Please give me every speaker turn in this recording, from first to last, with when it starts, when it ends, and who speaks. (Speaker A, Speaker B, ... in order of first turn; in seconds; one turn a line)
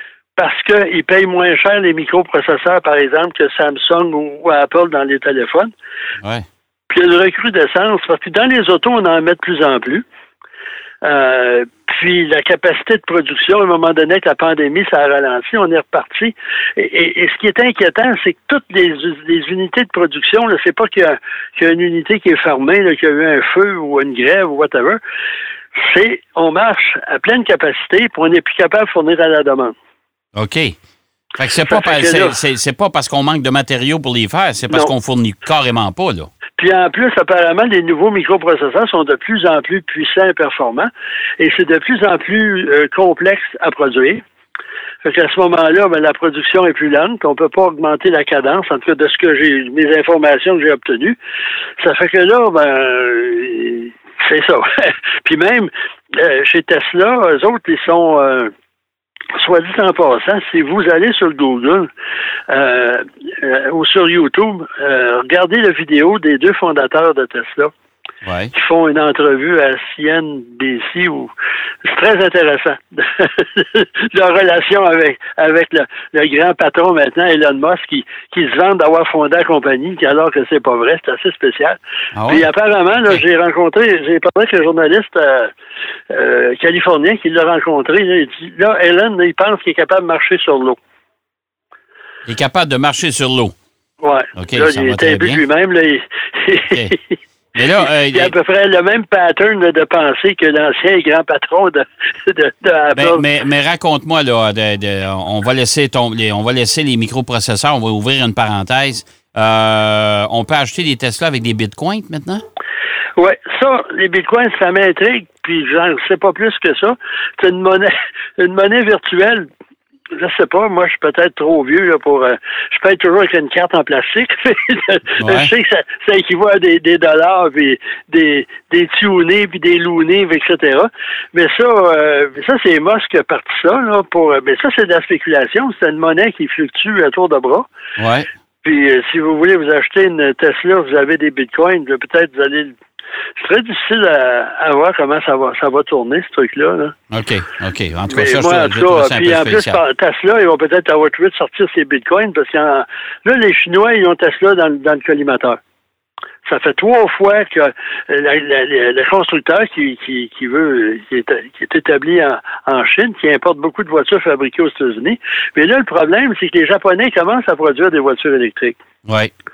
Speaker A: 0.3-5.7
Speaker A: 6.9-10.0
Speaker A: 11.0-25.0
Speaker A: 25.7-29.7
Speaker B: 30.3-30.7
Speaker B: 31.4-36.3
Speaker A: 31.7-32.3
Speaker A: 36.6-44.2
Speaker A: 45.0-51.2
Speaker A: 51.8-58.5
Speaker A: 59.3-61.9
Speaker A: 62.5-67.7
Speaker B: 68.2-68.5
Speaker A: 68.5-71.3
Speaker A: 71.8-85.5
Speaker B: 82.1-82.5
Speaker A: 86.1-90.8
Speaker B: 92.3-93.5
Speaker A: 94.0-97.2
Speaker B: 94.4-95.4
Speaker B: 97.5-98.3
Speaker A: 97.8-103.2
Speaker B: 102.9-112.4
Speaker A: 113.2-119.5
Speaker A: 120.2-137.7
Speaker B: 125.2-125.5
Speaker B: 138.0-138.3
Speaker A: 138.6-142.8
Speaker A: 143.4-146.9
Speaker B: 147.1-149.8
Speaker A: 148.1-155.6
Speaker A: 156.4-168.8
Speaker B: 169.1-169.3